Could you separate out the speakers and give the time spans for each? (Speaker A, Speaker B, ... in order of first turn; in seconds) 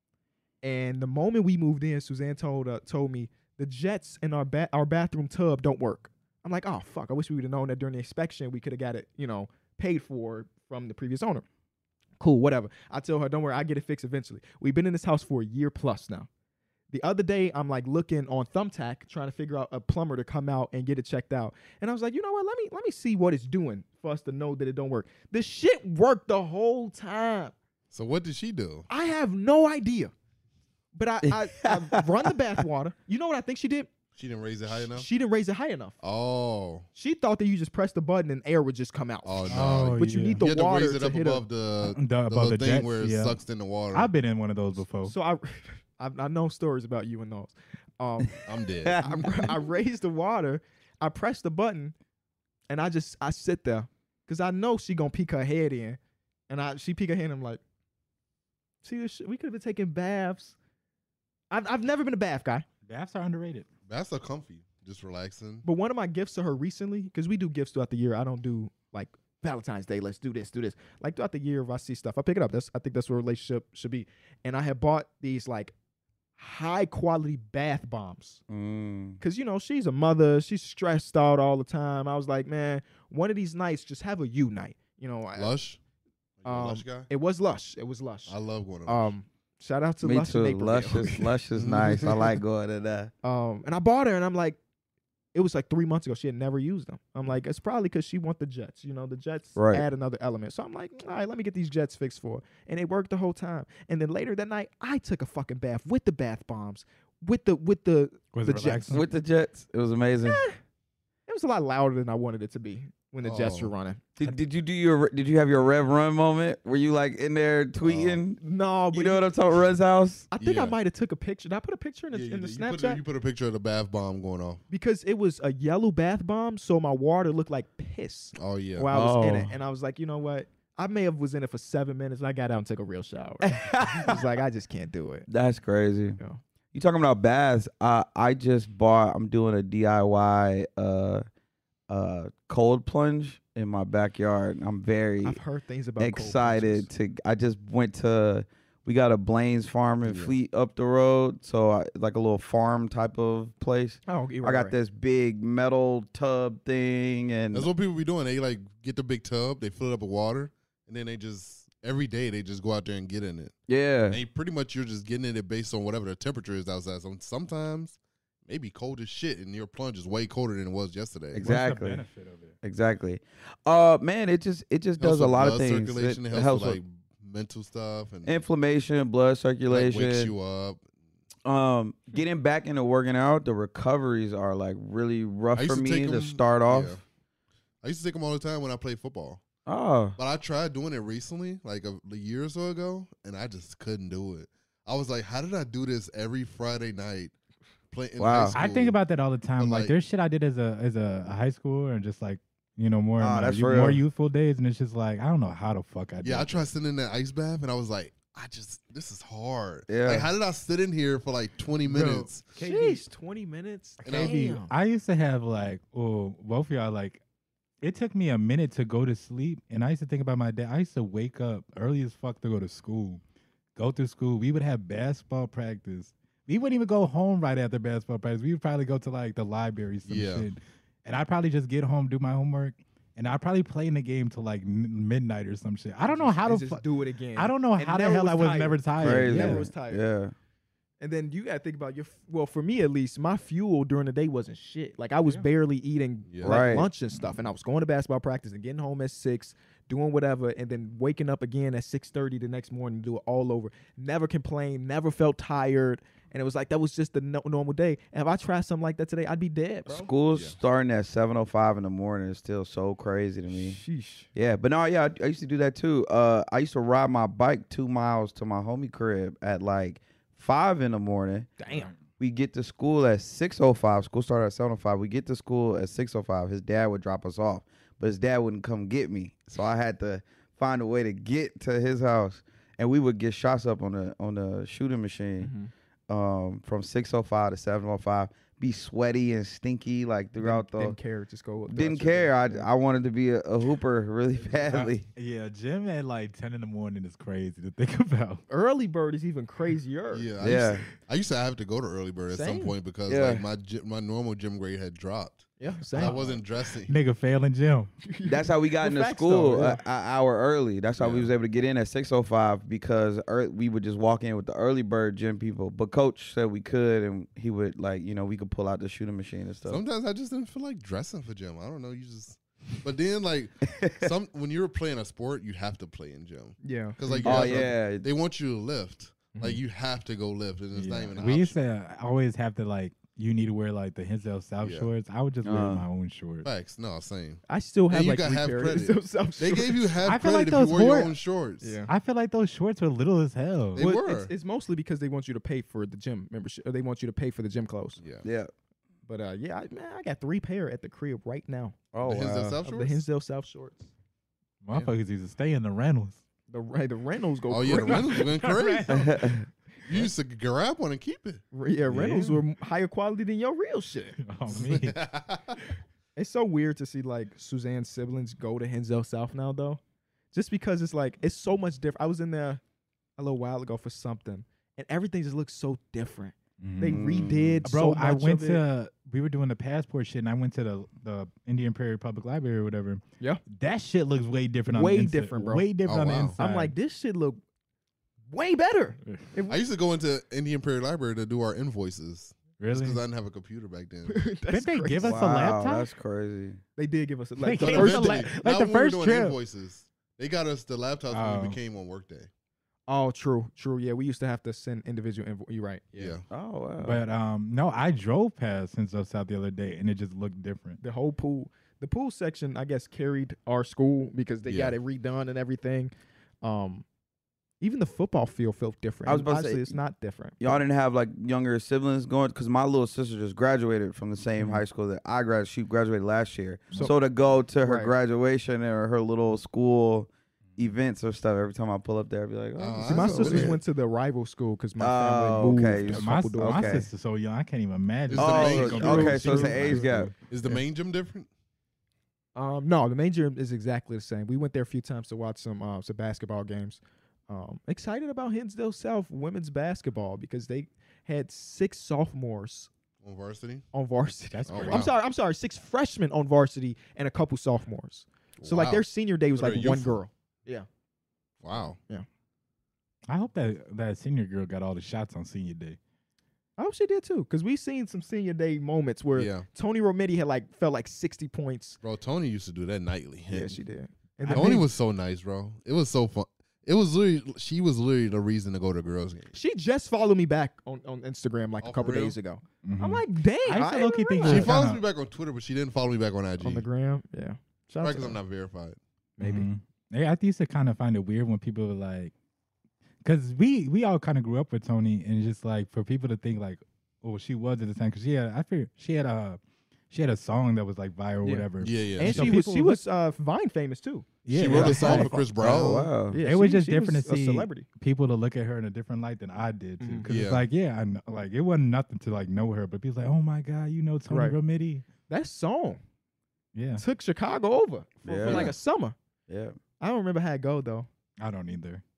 Speaker A: 0.6-11.4, 12.2-16.3, 16.9-27.5, 28.9-30.1, 30.9-33.9, 34.7-36.0, 37.0-41.4, 45.0-52.0, 52.7-57.6, 58.8-60.6, 61.5-62.6, 65.7-75.7, 76.4-78.4, 79.2-85.5, 86.5-91.3, 93.2-94.6, 95.3-109.0, 110.2-110.6, 111.3-114.3, 118.4-119.3, 120.3-123.0, 124.7-135.3, 145.2-146.9, 154.1-154.8, 212.5-214.7, 236.0-240.1, 241.0-260.1, 263.5-264.3, 271.6-271.9, 285.4-285.7, 290.4-292.7, 294.4-294.9, 298.5-300.3, 302.3-302.7, 305.6-306.4, 308.0-309.8, 326.6-327.7, 329.3-329.6, 337.5-340.0, 341.6-341.9, 343.8-348.0, 349.1-351.8, 352.6-353.9, 356.5-358.2, 361.5-364.2, 366.1-369.8, 370.3-372.6, 373.2-378.6, 384.7-385.6, 386.4-387.4, 388.3-389.6, 394.1-395.4, 396.8-398.3, 402.9-406.2, 410.8-416.9, 417.6-420.6, 426.7-427.0, 427.6-427.9, 432.8-436.7, 438.8-439.8, 442.4-452.7, 453.7-460.7, 466.6-471.8, 473.3-474.6, 479.3-484.6, 486.4-488.2, 489.2-489.5, 502.0-505.2, 506.1-507.6, 509.8-510.1, 514.1-514.4, 515.1-515.8, 516.8-519.0, 519.8-520.9
Speaker B: 27.9-28.9, 34.1-35.1, 36.0-36.9, 39.2-44.1, 48.5-49.3, 63.9-65.7, 85.3-85.8, 86.4-87.1, 88.3-89.1, 91.5-92.4, 113.2-113.7, 117.8-118.2, 120.4-120.7, 122.1-124.6, 128.3-128.9, 150.0-150.4, 157.5-163.5, 164.1-171.4, 175.0-178.4, 179.7-180.8, 185.6-187.0, 187.8-189.4, 190.2-197.3, 197.9-198.9, 199.6-199.9, 206.2-212.4, 214.1-214.5, 230.1-230.4, 246.3-246.6, 300.1-306.9, 311.0-311.3, 319.7-331.6, 334.6-334.9, 336.4-341.8, 343.7-344.3, 348.0-348.3, 352.0-353.0, 357.5-359.2, 359.9-362.4, 364.5-365.6, 385.9-386.4, 389.5-394.2, 397.6-402.3, 405.9-406.2, 414.4-414.8, 432.6-433.6, 438.1-439.8, 440.3-441.3, 453.0-453.6, 454.5-454.9, 458.4-460.0, 461.4-461.8, 469.1-469.5, 471.8-473.6, 474.3-479.4, 481.6-482.2, 484.2-486.6, 487.8-488.8, 501.6-502.3, 504.3-505.9, 510.1-510.5, 518.2-518.5
Speaker C: 31.2-32.0, 48.8-49.6, 78.5-79.2, 90.0-93.1, 99.6-99.9, 108.9-110.4, 114.2-120.3, 128.9-129.6, 133.4-134.2, 135.3-136.2, 136.7-141.2, 141.9-145.4, 146.0-157.7, 163.7-164.2, 171.3-172.0, 172.6-176.8, 178.2-180.3, 181.4-187.0, 189.7-190.2, 198.2-198.6, 203.2-204.0, 209.9-210.3, 239.0-240.3, 246.4-246.9, 259.9-263.8, 264.3-271.5, 272.2-285.5, 286.1-291.0, 291.7-295.1, 300.4-300.9, 303.1-303.4, 308.3-319.8, 323.7-324.1, 327.2-328.1, 335.4-335.9, 348.2-348.5, 351.9-352.6, 358.9-359.4, 376.9-377.6, 395.0-396.6, 406.3-407.0, 419.1-419.8, 420.4-433.6, 434.8-436.9, 438.1-440.1, 505.4-506.2, 518.0-518.5, 519.3-519.6
Speaker D: 39.5-40.4, 41.8-43.4, 43.9-45.1, 62.9-63.7, 108.3-109.1, 171.4-172.6, 198.6-206.7, 211.8-213.0, 214.0-217.2, 217.8-223.2, 223.8-236.8, 237.4-239.7, 294.7-298.4, 306.9-307.9, 330.7-336.5, 340.1-341.1, 341.9-343.9, 354.6-356.2, 357.9-359.4, 364.2-365.0, 376.6-386.7, 392.6-393.0, 394.5-395.9, 397.4-399.4, 401.1-401.6, 406.8-410.8, 435.7-440.1, 454.3-454.9, 463.1-465.8, 474.2-474.6, 482.6-484.8, 489.2-492.1, 493.0-499.4, 499.9-502.8, 504.3-514.9, 516.5-516.8, 521.2-521.8